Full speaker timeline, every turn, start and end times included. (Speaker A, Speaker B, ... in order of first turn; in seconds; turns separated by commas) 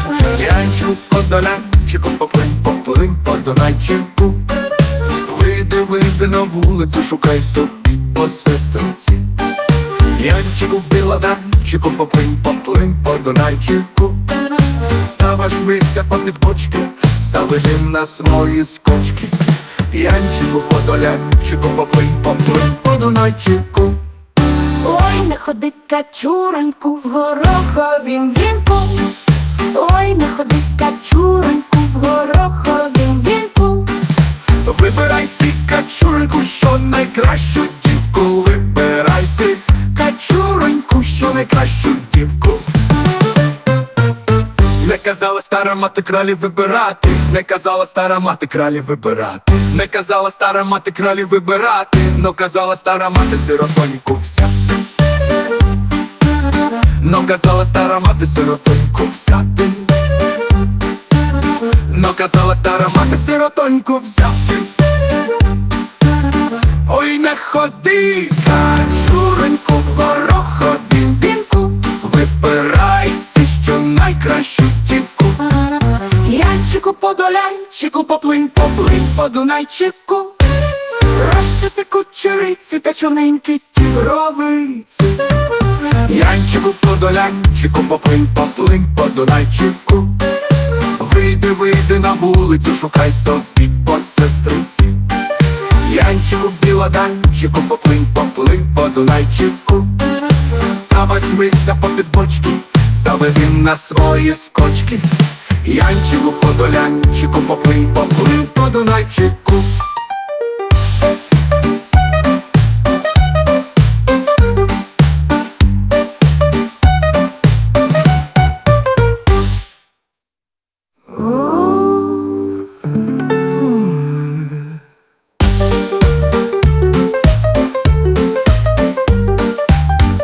Speaker A: 0.2-9.3, Speaker A: 9.9-24.1, Speaker B: 24.7-34.1, Speaker A: 34.5-42.8, Speaker A: 44.7-54.7, Speaker A: 56.8-60.1, Speaker A: 61.6-64.8, Speaker A: 66.5-75.6, Speaker B: 76.2-77.6, Speaker A: 76.6-80.5, Speaker B: 79.6-80.0, Speaker A: 81.1-109.9, Speaker B: 121.9-122.2